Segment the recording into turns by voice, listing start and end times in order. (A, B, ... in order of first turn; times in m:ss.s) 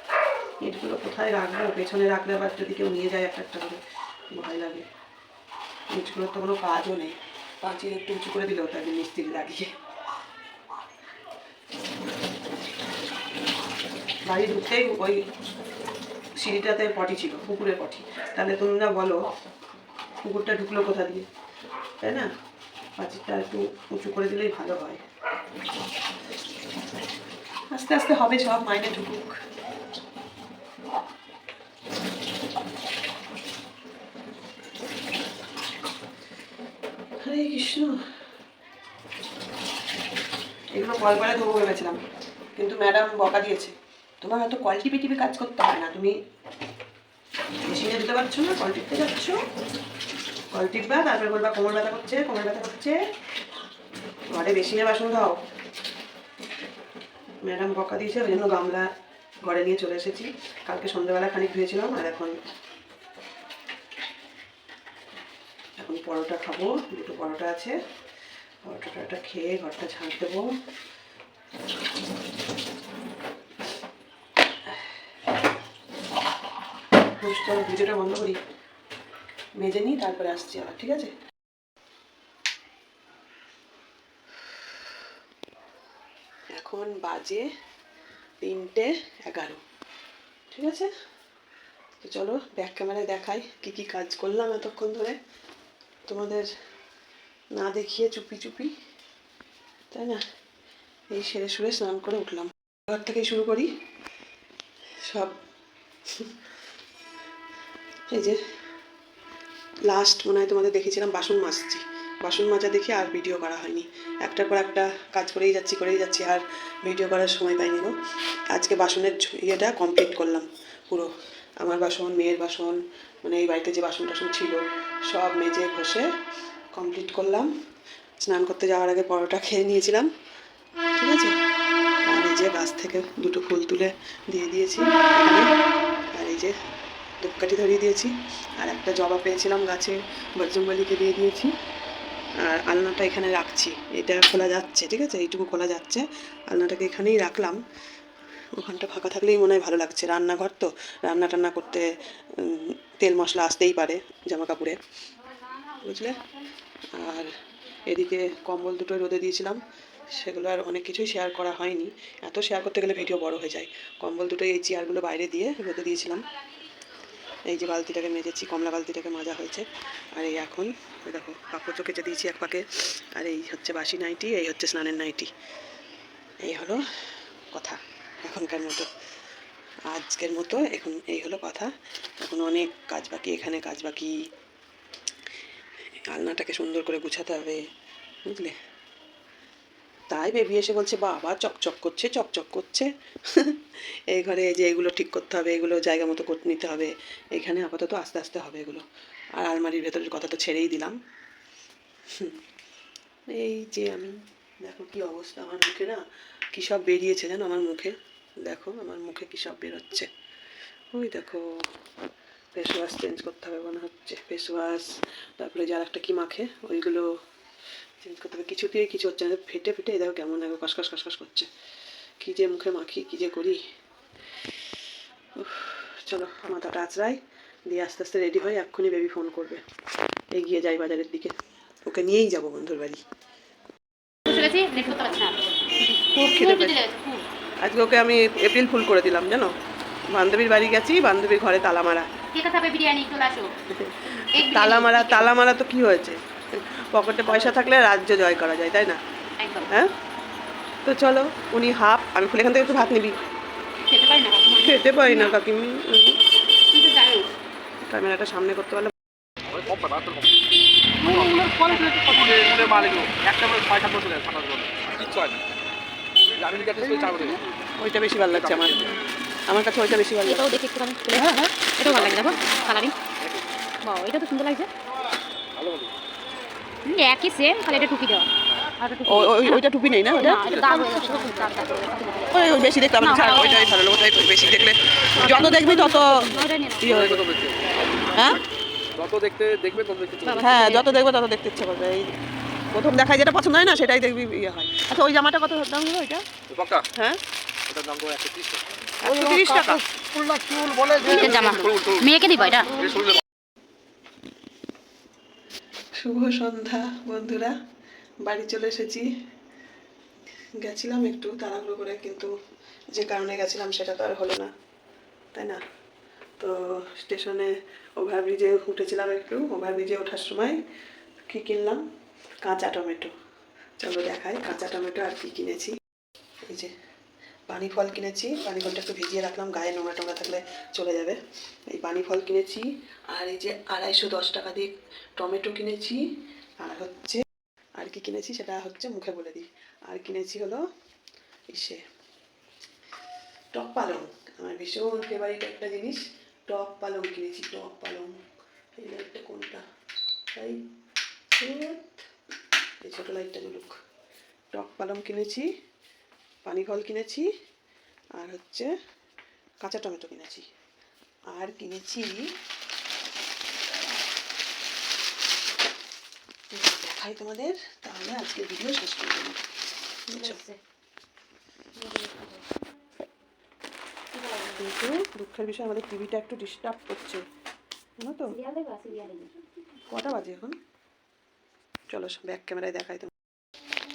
0:00.6-0:03.8 A
0:04.4-0:04.9 A
0:05.9-0:09.7 A
0:14.3-0:15.2 A
0:16.4-0:19.2 A
0:20.3-0:21.3 A
0:22.0-0:22.3 A
0:23.0-0:25.0 A
0:27.7-0:29.4 A
0:37.2-0:38.0 A
0:40.7-0:42.0 A
0:42.6-0:46.2 A
0:47.6-0:49.4 A
0:50.5-0:53.0 A
0:54.3-0:55.4 A
0:57.5-0:58.9 A
0:59.4-1:02.3 A
1:05.8-1:07.7 A
1:08.6-1:10.5 A
1:17.2-1:18.4 A
1:19.6-1:21.1 A
1:26.5-1:27.5 A
1:28.4-1:29.6 A
1:30.5-1:30.9 A
1:32.0-1:35.2 A
1:36.1-1:36.5 A
1:37.6-1:38.7 A
1:39.9-1:40.2 A
1:41.1-1:43.7 A
1:45.0-1:45.4 A
1:48.1-1:48.4 A
1:49.9-1:57.9 A
1:58.5-2:01.1 A
2:01.6-2:06.0 A
2:06.8-2:07.5 A
2:08.2-2:10.1 A
2:11.0-2:11.4 A
2:12.1-2:15.5 A
2:16.2-2:16.5 A
2:17.2-2:21.5 A
2:22.4-2:27.6 A
2:28.5-2:34.8 A
2:35.3-2:36.1 B
2:35.8-2:36.2 A
2:36.9-2:37.3 A
2:37.9-2:46.2 A
2:47.5-2:52.6 A
2:53.2-2:55.3 A
2:56.4-2:56.8 A
2:57.5-2:58.9 A
2:59.9-3:04.1 A
3:06.1-3:07.6 A
3:08.3-3:08.5 A
3:10.1-3:18.8 A
3:19.4-3:21.0 A
3:22.1-3:22.4 A
3:23.3-3:26.0 A
3:26.5-3:30.1 A
3:30.9-3:31.6 A
3:32.5-3:37.1 A
3:38.0-3:41.5 A
3:42.2-3:43.6 A
3:45.4-3:49.6 A
3:50.3-3:51.4 A
3:51.9-3:53.0 A
3:54.2-3:57.2 B
3:56.1-3:56.8 A
3:57.6-3:59.5 A
4:00.1-4:02.1 A
4:02.3-4:03.5 B
4:03.7-4:09.0 A
4:04.1-4:05.3 B
4:07.3-4:07.6 B
4:09.4-4:09.7 B
4:10.8-4:13.2 A
4:13.9-4:15.4 B
4:14.5-4:16.2 A
4:16.7-4:17.3 B
4:17.8-4:18.9 A
4:19.5-4:20.3 C
4:21.0-4:25.4 C
4:21.0-4:22.4 B
4:26.3-4:27.4 C
4:27.8-4:29.0 A
4:28.5-4:28.9 C
4:29.5-4:30.6 A
4:30.2-4:32.9 B
4:31.1-4:31.5 A
4:31.8-4:32.4 C
4:33.8-4:34.7 B
4:35.6-4:35.9 C
4:36.8-4:39.6 B
4:39.0-4:40.4 A
4:40.2-4:43.8 B
4:40.4-4:40.9 C
4:42.3-4:46.3 A
4:45.1-4:46.9 B
4:46.8-4:47.2 A
4:46.8-4:48.4 C
4:48.1-4:48.4 A
4:49.0-4:50.5 C
4:50.2-4:51.0 B
4:50.4-4:52.1 A
4:52.7-4:56.2 A
4:56.5-4:56.8 C
4:57.7-4:58.6 C
4:59.0-4:59.8 A
4:59.2-5:02.1 C
5:01.0-5:02.8 B
5:02.6-5:03.2 C
5:06.0-5:07.5 A
5:08.2-5:09.1 A
5:10.6-5:12.3 A
5:12.9-5:14.5 A
5:15.3-5:15.6 A
5:16.4-5:20.6 A
5:21.3-5:21.8 A
5:22.4-5:23.1 A
5:23.8-5:25.8 A
5:27.5-5:31.2 A
5:31.7-5:36.0 A
5:36.6-5:37.2 A
5:37.8-5:40.6 A
5:41.5-5:41.8 A
5:43.5-5:48.2 A
5:48.8-5:49.6 A
5:50.4-5:50.6 A
5:51.4-5:52.0 A
5:52.8-5:53.8 A
5:54.5-5:55.5 A
5:56.4-5:57.3 A
5:58.2-5:58.7 A
5:59.6-6:00.5 A
6:01.3-6:02.3 A
6:06.5-6:09.4 A
6:10.1-6:10.4 A
6:10.1-6:10.6 B
6:11.8-6:12.4 B
6:14.1-6:14.7 B
6:14.4-6:17.2 A
6:18.0-6:18.4 A
6:18.3-6:19.3 B
6:19.9-6:20.5 A
6:21.9-6:23.1 A